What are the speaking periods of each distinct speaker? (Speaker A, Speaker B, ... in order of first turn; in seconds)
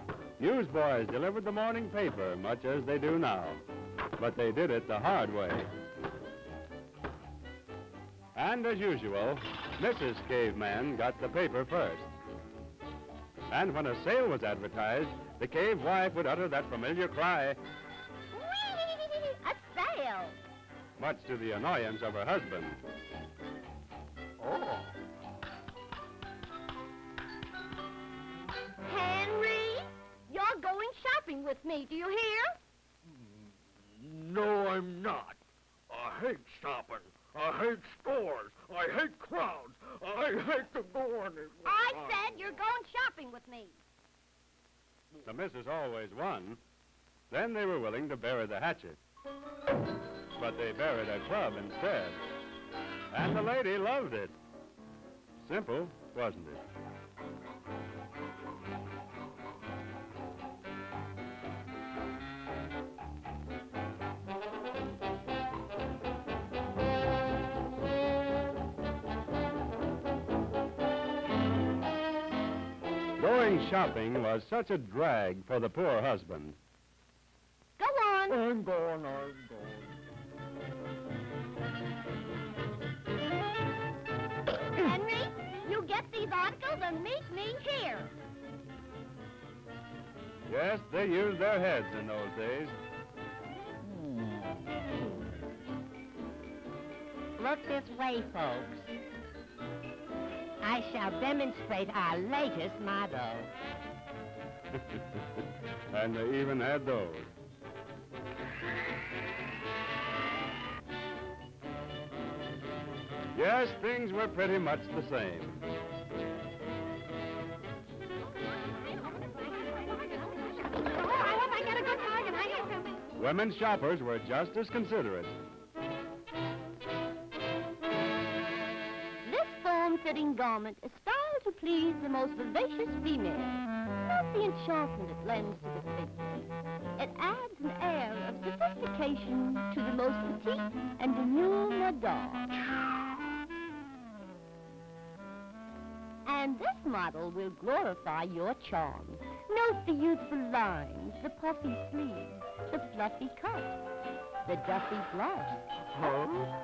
Speaker A: 0.4-3.6, 4.2-5.7, 8.3-12.1, 13.5-17.6, 21.0-22.8, 45.2-46.6, 47.3-49.0, 50.4-52.2, 53.1-54.3, 55.4-56.6, 73.2-76.6, 90.5-92.7, 104.7-105.0, 105.9-107.3, 113.3-115.6, 123.1-125.3
Speaker B: 18.3-20.4, 28.8-32.6, 41.6-43.8, 77.8-78.4, 84.7-88.1, 120.9-123.0, 129.2-142.6, 146.2-153.8, 154.4-155.6
Speaker C: 24.4-24.9, 34.0-35.4, 35.9-42.4, 78.3-80.0, 156.0-156.5
Speaker D: 97.4-98.9, 100.6-103.5